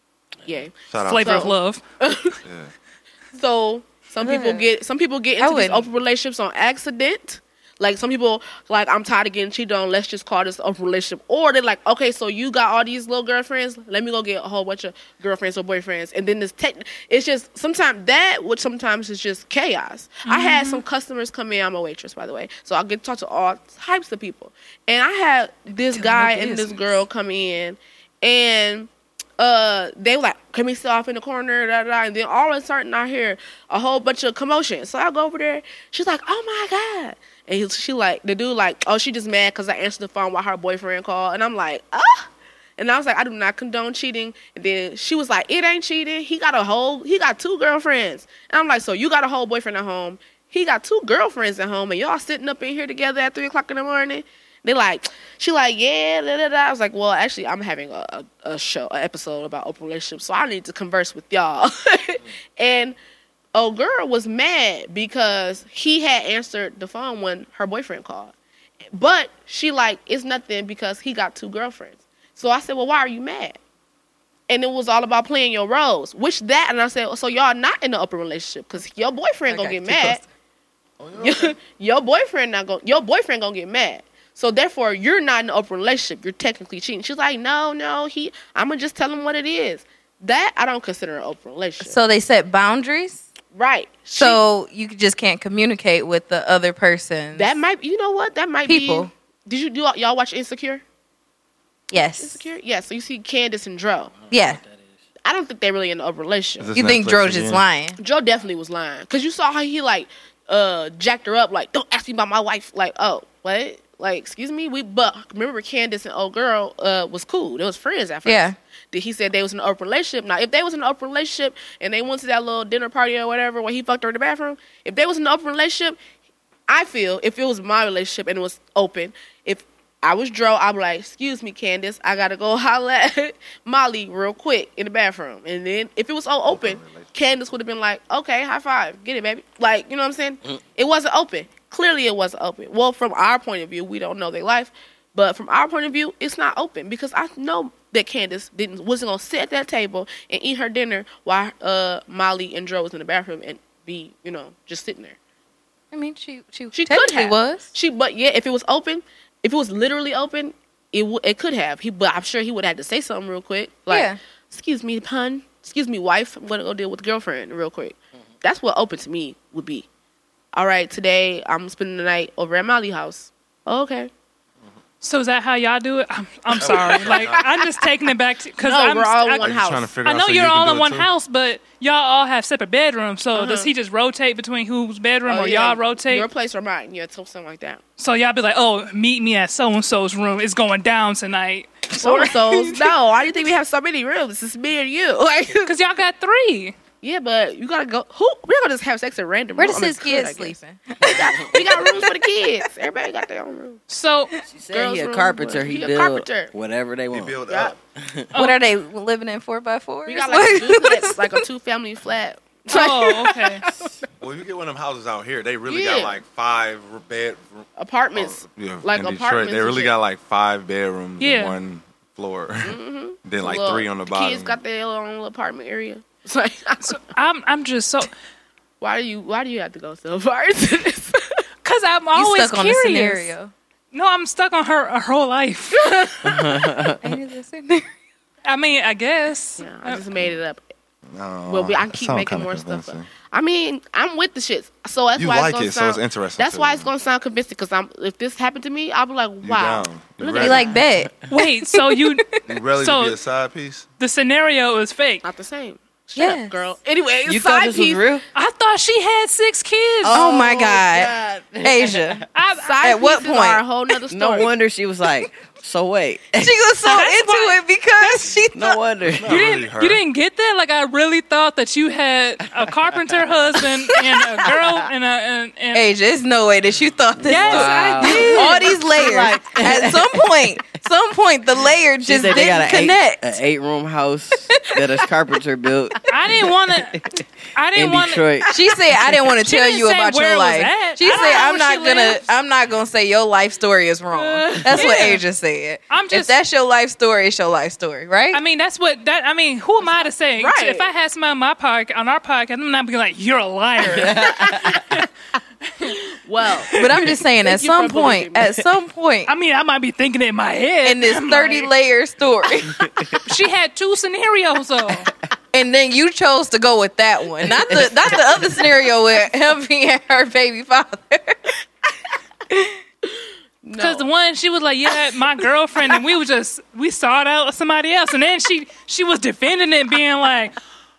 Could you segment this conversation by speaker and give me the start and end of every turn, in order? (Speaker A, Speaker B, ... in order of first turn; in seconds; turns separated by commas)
Speaker A: 0.5-2.4, Speaker B: 0.9-1.5, Speaker C: 1.0-1.8, Speaker B: 2.5-2.7, Speaker A: 3.4-63.0, Speaker D: 4.2-4.7, Speaker D: 5.4-5.9, Speaker C: 20.3-20.8, Speaker C: 25.9-27.0, Speaker A: 63.5-68.3, Speaker A: 68.9-73.6, Speaker A: 74.5-80.2, Speaker D: 79.5-80.2, Speaker B: 81.0-81.5, Speaker A: 81.2-92.0, Speaker D: 91.8-93.2, Speaker A: 93.5-94.4, Speaker D: 94.2-97.6, Speaker A: 97.3-100.8, Speaker D: 98.7-99.1, Speaker D: 101.9-102.4, Speaker A: 102.2-104.1, Speaker E: 104.2-104.9, Speaker D: 104.3-104.6, Speaker A: 105.3-106.7, Speaker B: 106.6-107.6, Speaker D: 106.8-108.0, Speaker A: 108.0-126.0, Speaker D: 118.2-118.6, Speaker A: 126.7-155.2, Speaker B: 136.5-137.1, Speaker D: 155.9-157.7, Speaker A: 156.7-169.9, Speaker D: 163.9-164.2, Speaker A: 170.5-174.1, Speaker C: 175.0-186.3, Speaker B: 176.6-177.4, Speaker A: 176.6-177.7, Speaker A: 178.6-179.9, Speaker B: 179.4-181.1, Speaker A: 183.3-183.7, Speaker A: 185.3-187.8, Speaker C: 188.0-192.8, Speaker A: 191.9-195.7, Speaker C: 195.7-196.8, Speaker A: 197.0-203.8, Speaker D: 199.6-202.0, Speaker E: 201.2-201.9, Speaker C: 203.9-204.3, Speaker E: 204.5-207.4, Speaker A: 204.7-206.5, Speaker B: 207.1-207.7, Speaker A: 207.5-207.8, Speaker E: 208.0-208.3, Speaker C: 208.3-208.6, Speaker D: 208.3-211.3, Speaker A: 210.1-213.3, Speaker D: 212.7-213.3, Speaker C: 212.7-213.7, Speaker B: 214.2-224.6, Speaker A: 215.7-216.2, Speaker A: 217.8-219.9, Speaker C: 221.2-221.6, Speaker A: 222.6-227.0, Speaker C: 226.8-228.1, Speaker A: 228.8-231.4, Speaker C: 231.6-233.3, Speaker D: 232.1-233.5, Speaker C: 233.9-235.8, Speaker A: 235.7-236.5, Speaker E: 236.2-237.0, Speaker D: 237.0-237.9, Speaker C: 238.5-240.0, Speaker A: 239.6-240.6, Speaker B: 241.1-243.1, Speaker A: 241.5-250.8, Speaker B: 245.2-246.9, Speaker B: 249.4-250.8, Speaker D: 250.4-251.1, Speaker C: 251.3-252.2, Speaker D: 251.7-252.4, Speaker B: 252.5-253.8, Speaker C: 252.8-253.2, Speaker C: 254.0-255.2, Speaker A: 255.2-258.1, Speaker D: 256.2-256.6, Speaker E: 257.3-258.2, Speaker C: 258.3-260.2, Speaker E: 260.0-262.2, Speaker D: 260.1-262.2, Speaker C: 262.3-262.8, Speaker A: 262.6-264.5, Speaker D: 262.8-263.6, Speaker E: 264.1-266.6, Speaker D: 266.4-268.8, Speaker C: 266.9-268.2, Speaker E: 268.5-269.4, Speaker B: 269.1-270.0, Speaker C: 269.3-275.9, Speaker D: 275.7-283.4, Speaker E: 277.2-280.8, Speaker C: 277.3-278.7, Speaker E: 282.0-287.2, Speaker D: 284.5-285.0, Speaker C: 286.1-287.0, Speaker C: 287.6-288.2, Speaker E: 287.8-288.5, Speaker D: 288.5-298.4, Speaker C: 289.4-292.2, Speaker C: 294.1-295.2, Speaker E: 294.5-295.1, Speaker C: 295.9-296.4, Speaker C: 298.3-305.1, Speaker A: 299.8-300.9, Speaker E: 303.8-304.9, Speaker A: 305.8-306.7, Speaker C: 306.7-307.2, Speaker D: 306.7-309.3, Speaker A: 307.4-308.5, Speaker C: 309.3-311.7, Speaker D: 310.8-313.2, Speaker C: 313.2-315.1, Speaker D: 315.5-321.4, Speaker E: 317.4-318.4, Speaker D: 322.5-322.8, Speaker A: 323.6-324.1, Speaker C: 323.8-330.6